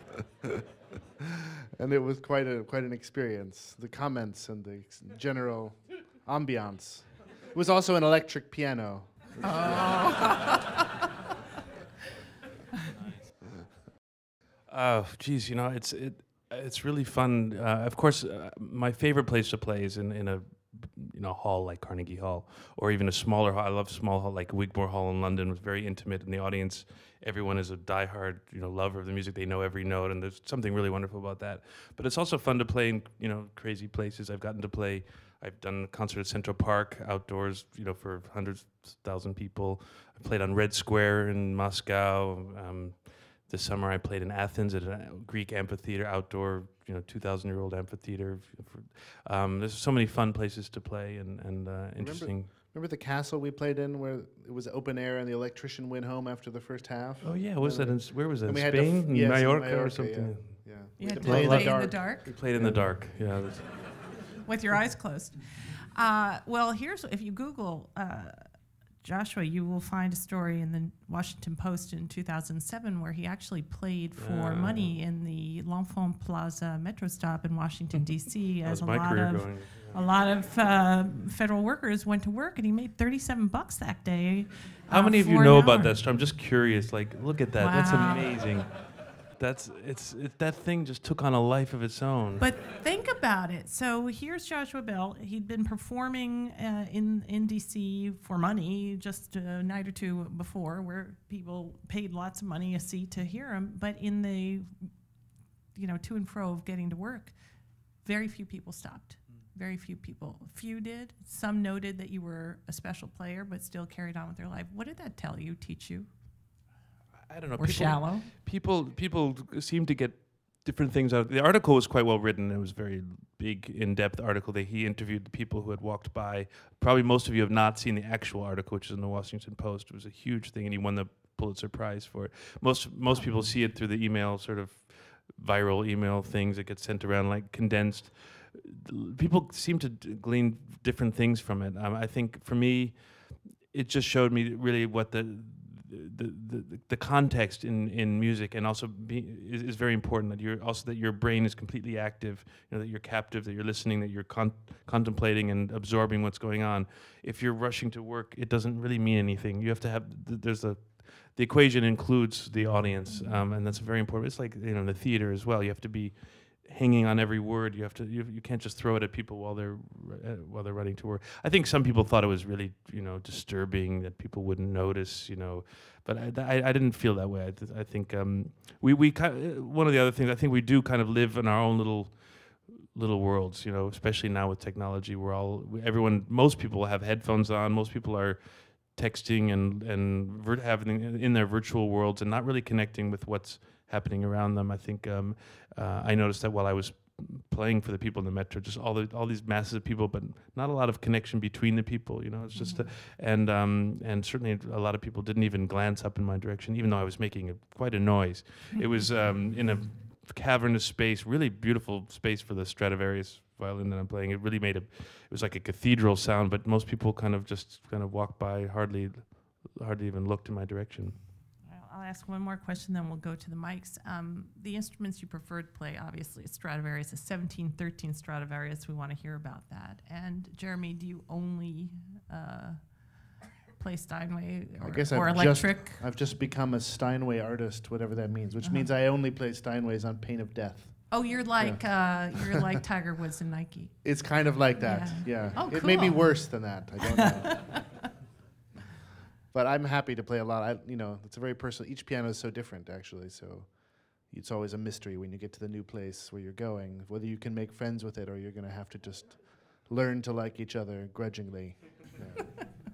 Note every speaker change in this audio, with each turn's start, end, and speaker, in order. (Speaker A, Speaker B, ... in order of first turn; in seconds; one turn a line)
Speaker A: 1.4-10.3
Speaker B: 9.4-10.8
Speaker C: 14.7-52.5
Speaker A: 52.0-63.0
Speaker C: 57.2-60.6
Speaker B: 61.0-62.4
Speaker C: 61.2-63.7
Speaker B: 64.4-68.5
Speaker B: 69.0-86.0
Speaker C: 74.2-75.0
Speaker C: 77.9-80.0
Speaker C: 84.9-92.5
Speaker B: 87.6-88.4
Speaker B: 92.4-104.9
Speaker B: 105.7-107.3
Speaker B: 108.0-116.1
Speaker C: 117.3-221.2
Speaker B: 117.6-118.3
Speaker B: 163.1-163.4
Speaker B: 202.5-202.9
Speaker B: 221.7-236.0
Speaker A: 234.8-242.7
Speaker B: 238.6-238.9
Speaker B: 241.1-244.2
Speaker A: 244.0-248.1
Speaker B: 244.8-247.9
Speaker A: 249.5-262.5